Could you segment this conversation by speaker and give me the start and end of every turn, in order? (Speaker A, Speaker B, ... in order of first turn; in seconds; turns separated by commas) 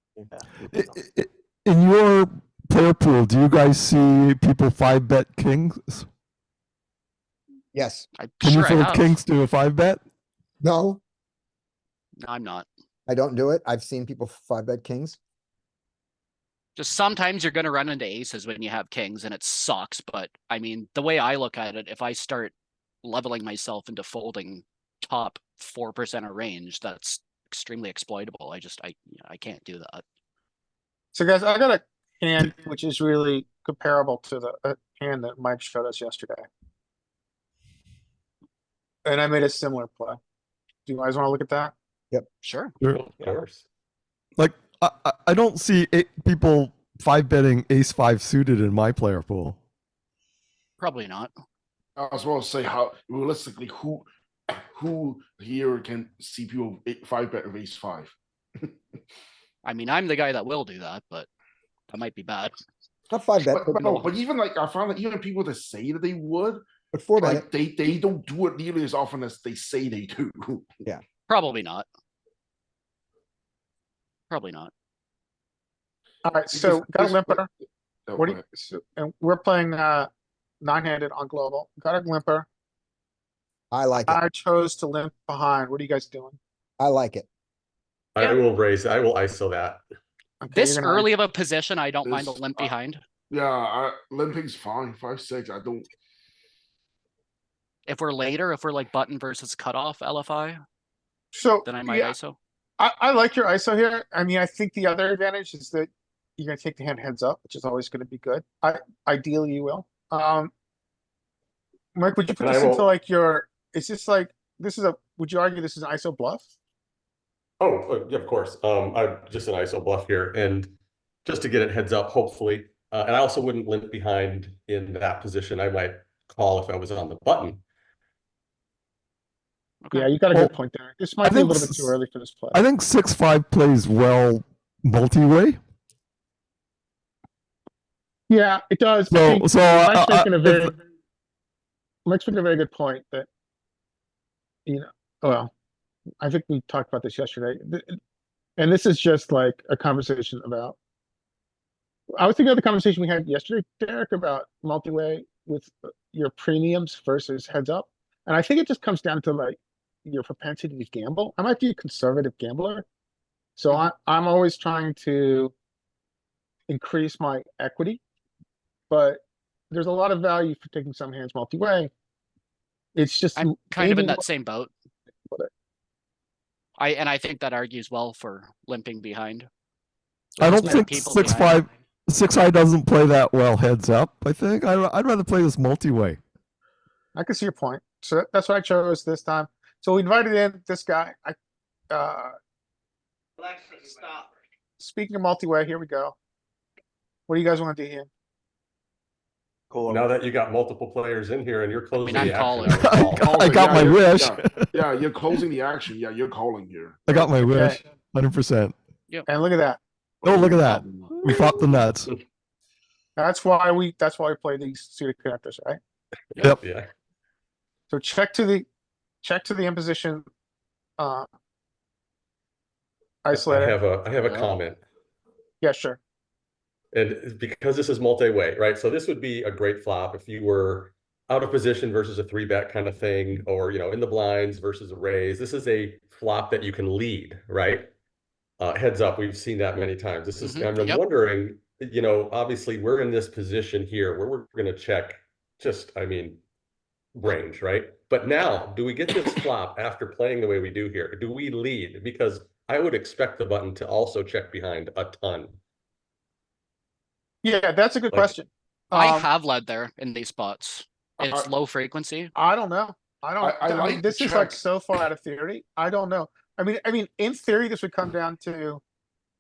Speaker A: 0.7-6.1, Speaker B: 7.7-8.1, Speaker C: 8.2-9.2, Speaker A: 8.4-10.0, Speaker B: 10.6-11.0, Speaker C: 12.2-12.7, Speaker B: 13.1-15.2, Speaker C: 16.8-22.5, Speaker C: 23.0-30.0, Speaker D: 31.1-36.5, Speaker D: 39.0-40.2, Speaker D: 40.9-41.7, Speaker C: 42.4-42.7, Speaker E: 42.9-43.6, Speaker A: 44.4-49.6, Speaker C: 50.8-51.3, Speaker F: 52.0-58.7, Speaker C: 59.6-61.3, Speaker C: 61.9-62.5, Speaker B: 63.1-64.1, Speaker F: 63.5-66.7, Speaker B: 66.9-67.4, Speaker F: 67.2-70.7, Speaker C: 71.3-71.9, Speaker C: 74.3-74.7, Speaker D: 76.2-77.5, Speaker F: 76.5-77.4, Speaker F: 78.1-78.4, Speaker D: 78.2-80.1, Speaker D: 80.6-82.5, Speaker B: 83.7-84.2, Speaker D: 84.1-86.4, Speaker B: 86.8-87.3, Speaker E: 88.2-89.8, Speaker D: 90.4-91.1, Speaker C: 90.5-93.0, Speaker F: 92.1-92.7, Speaker F: 93.3-95.9, Speaker C: 97.9-100.6, Speaker D: 101.3-102.1, Speaker C: 101.7-102.4, Speaker D: 102.8-110.5, Speaker D: 112.0-116.5, Speaker E: 112.4-112.9, Speaker E: 117.6-120.7, Speaker E: 121.2-127.6, Speaker C: 129.8-130.1, Speaker D: 129.9-132.6, Speaker A: 131.2-131.9, Speaker A: 132.5-135.6, Speaker D: 138.3-140.8, Speaker A: 139.1-140.7, Speaker D: 142.1-143.3, Speaker D: 144.7-145.5, Speaker D: 146.2-148.0, Speaker D: 148.6-150.8, Speaker D: 152.2-162.8, Speaker D: 163.6-165.5, Speaker D: 166.7-168.0, Speaker D: 168.9-171.9, Speaker D: 172.9-174.2, Speaker C: 173.4-174.7, Speaker C: 176.8-179.5, Speaker C: 180.4-181.7, Speaker A: 180.4-186.2, Speaker D: 187.2-191.4, Speaker D: 191.9-192.3, Speaker D: 194.8-196.2, Speaker D: 197.3-198.1, Speaker E: 199.8-203.3, Speaker C: 202.0-203.0, Speaker A: 202.7-204.7, Speaker F: 203.1-207.3, Speaker A: 207.1-208.8, Speaker D: 207.4-207.8, Speaker D: 209.3-209.8, Speaker A: 210.2-212.1, Speaker C: 210.2-211.2, Speaker D: 213.2-215.8, Speaker E: 216.6-216.9, Speaker D: 217.9-218.7, Speaker D: 219.2-220.2, Speaker D: 221.0-221.3, Speaker D: 223.2-223.8, Speaker E: 223.4-224.8, Speaker C: 224.2-224.5, Speaker D: 225.6-226.0, Speaker E: 226.9-237.9, Speaker E: 238.6-246.4, Speaker C: 240.4-241.0, Speaker E: 247.2-255.6, Speaker D: 257.4-259.3, Speaker C: 258.9-262.3, Speaker F: 261.2-261.5, Speaker D: 262.4-268.8, Speaker F: 263.4-264.6